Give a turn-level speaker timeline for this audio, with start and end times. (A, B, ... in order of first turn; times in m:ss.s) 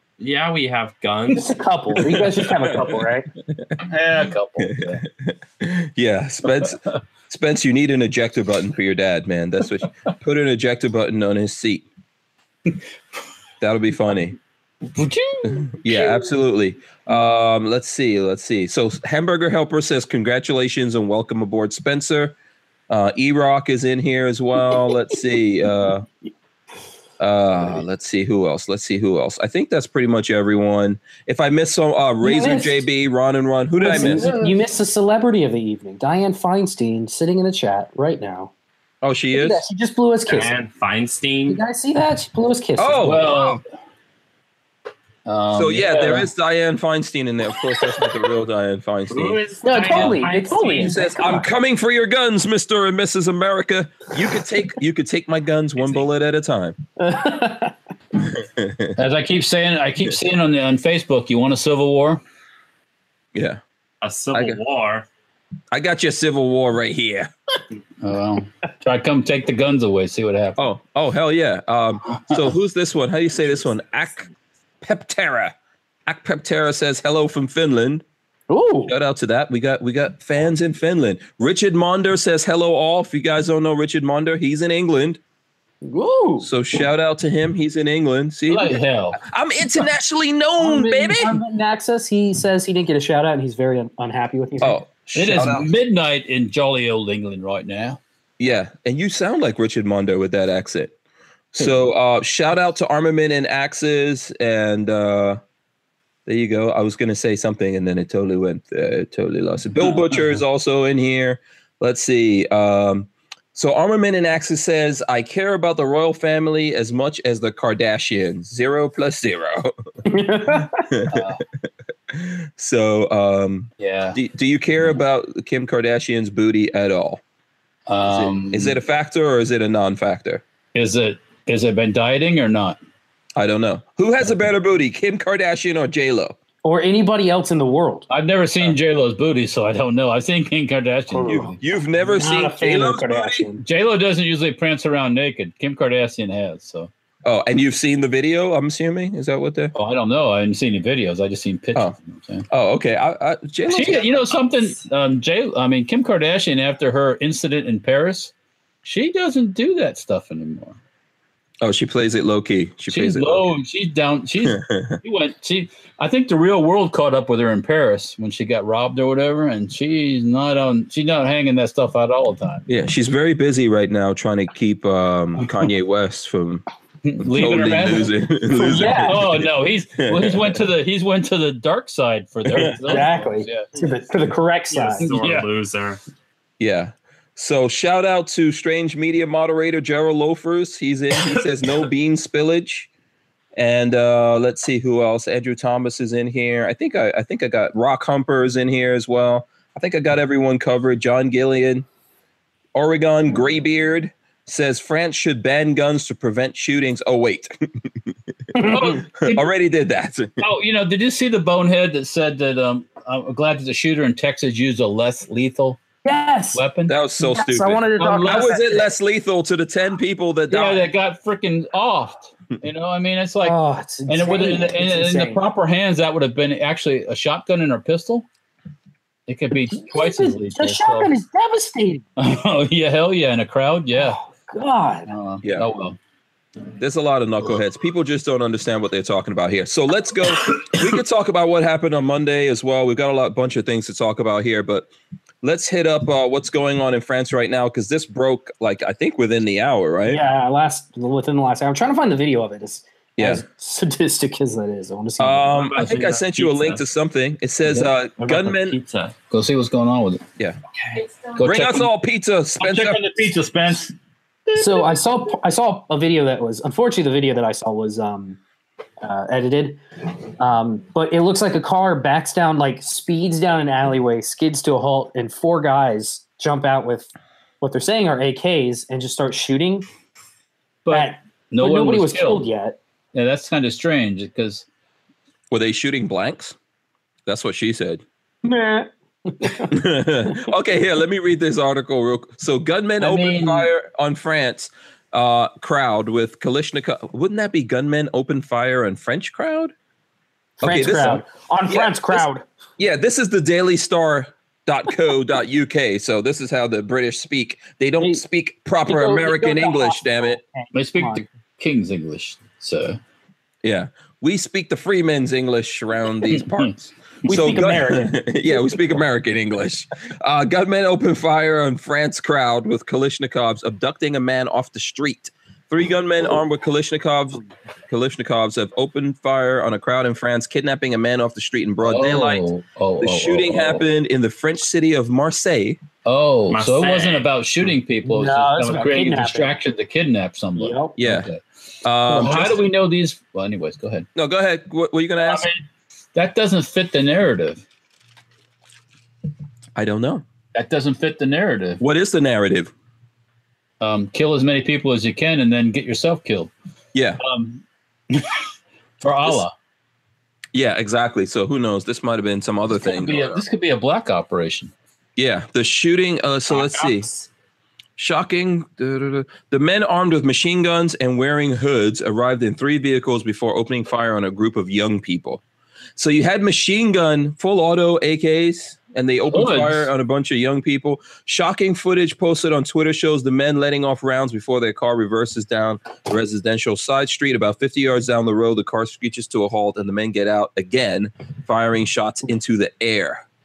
0:00.2-0:01.5 A
0:01.3-0:03.3 B
0:03.8-0:05.0 C
0:04.6-0:11.8 D
0:13.6-0:14.4 D
0:14.9-0:16.2 C
0:15.5-0:22.4 D
0:22.9-0:26.0 D
0:27.2-0:34.3 D
0:32.2-0:32.8 B
0:33.8-0:38.5 B
0:33.9-0:34.6 C
0:39.0-0:39.6 D
0:39.3-0:40.5 B
0:40.3-0:41.6 A
0:41.5-0:43.2 B
0:42.8-0:43.6 D
0:43.0-0:43.6 C
0:45.2-0:46.3 C
0:45.5-0:49.4 D
0:49.1-0:51.1 A
0:49.6-0:51.5 B
0:50.8-0:56.8 D
0:57.0-0:57.7 B
0:58.2-0:59.0 D
0:59.0-1:02.2 C
1:03.3-1:03.6 D
1:04.0-1:05.1 A
1:05.7-1:07.3 D
1:08.0-1:10.6 C
1:10.6-1:14.3 D
1:14.8-1:15.5 D
1:16.0-1:18.0 D
1:18.5-1:18.9 B
1:18.9-1:25.2 D
1:25.8-1:26.5 B
1:26.4-1:31.4 D
1:28.5-1:29.2 C
1:30.6-1:34.8 B
1:34.6-1:35.7 D
1:35.1-1:38.0 C
1:38.4-1:40.9 D
1:41.5-1:45.4 D
1:46.2-1:59.7 D
2:00.0-2:00.8 B
2:00.9-2:01.3 D
2:01.1-2:01.4 C
2:02.1-2:07.2 D
2:03.8-2:04.2 C
2:07.9-2:08.8 C
2:08.0-2:10.4 D
2:10.7-2:12.8 C
2:13.4-2:16.4 D
2:16.6-2:18.1 B
2:18.1-2:21.6 C
2:21.1-2:21.5 B
2:21.3-2:23.5 D
2:22.1-2:23.6 B
2:23.6-2:26.9 C
2:27.2-2:29.7 D
2:29.7-2:32.5 C
2:32.5-2:34.3 D
2:33.7-2:38.3 C
2:38.8-2:40.8 C
2:41.6-2:43.5 D
2:42.9-2:52.7 C
2:44.4-2:45.0 D
2:52.7-2:56.6 D
2:55.4-2:55.7 C
2:57.0-3:03.8 C
2:57.2-3:00.6 D
2:58.6-2:59.3 B
3:02.5-3:02.7 D
3:02.8-3:05.1 B
3:04.7-3:06.0 A
3:05.0-3:05.5 C
3:06.6-3:12.9 D
3:13.6-3:21.8 D
3:22.7-3:27.8 D
3:28.5-3:29.0 B
3:28.6-3:29.5 C
3:29.2-3:30.4 D
3:30.4-3:35.8 C
3:36.0-3:36.6 B
3:36.5-3:36.9 C
3:36.9-3:40.8 D
3:37.2-3:38.9 B
3:38.0-3:38.5 C
3:40.5-3:48.3 C
3:43.4-3:45.4 B
3:49.3-3:51.1 C
3:49.7-3:52.0 B
3:52.2-3:54.2 C
3:54.0-3:55.1 B
3:55.0-3:56.0 C
3:55.4-3:55.7 D
3:56.8-4:04.9 D
4:05.4-4:10.2 D
4:10.1-4:15.6 B
4:13.2-4:13.4 D
4:15.2-4:18.8 D
4:15.5-4:16.8 A
4:15.8-4:16.1 C
4:18.2-4:19.1 A
4:19.3-4:20.2 C
4:21.2-4:21.9 C
4:21.4-4:23.0 D
4:22.6-4:23.9 C
4:24.5-4:24.9 C
4:24.5-4:28.4 B
4:29.0-4:29.8 B
4:30.4-4:37.1 B
4:37.6-4:39.9 B
4:40.8-4:42.5 C
4:40.9-4:42.8 B
4:43.1-4:44.6 C
4:45.5-4:46.6 D
4:47.2-4:48.0 D
4:48.4-4:49.8 B
4:49.7-4:59.7 D
4:53.0-4:53.7 C
5:00.6-5:02.2 D
5:00.6-5:02.4 B
5:02.8-5:10.4 D
5:08.8-5:11.2 B
5:10.7-5:13.0 C
5:13.6-5:32.5 D
5:16.2-5:16.7 C
5:17.2-5:18.3 B
5:31.8-5:33.9 C
5:33.0-5:35.8 D
5:36.0-5:41.4 C
5:36.5-5:37.3 A
5:38.0-5:39.6 B
5:40.6-5:41.0 B
5:41.0-5:41.3 D
5:41.8-5:42.6 D
5:42.1-5:44.1 C
5:44.1-5:45.5 D
5:45.3-5:45.5 C
5:46.1-5:47.6 C
5:49.8-5:50.2 D
5:50.5-5:51.8 C
5:51.8-5:52.7 D
5:53.8-5:56.5 C
5:56.9-5:57.2 D
5:57.2-5:58.4 C
5:59.0-5:59.5 C
6:00.5-6:03.4 D
6:02.7-6:04.7 C
6:05.2-6:07.1 D
6:06.5-6:07.3 A
6:08.0-6:15.4 D
6:16.0-6:33.2 D
6:19.3-6:19.9 C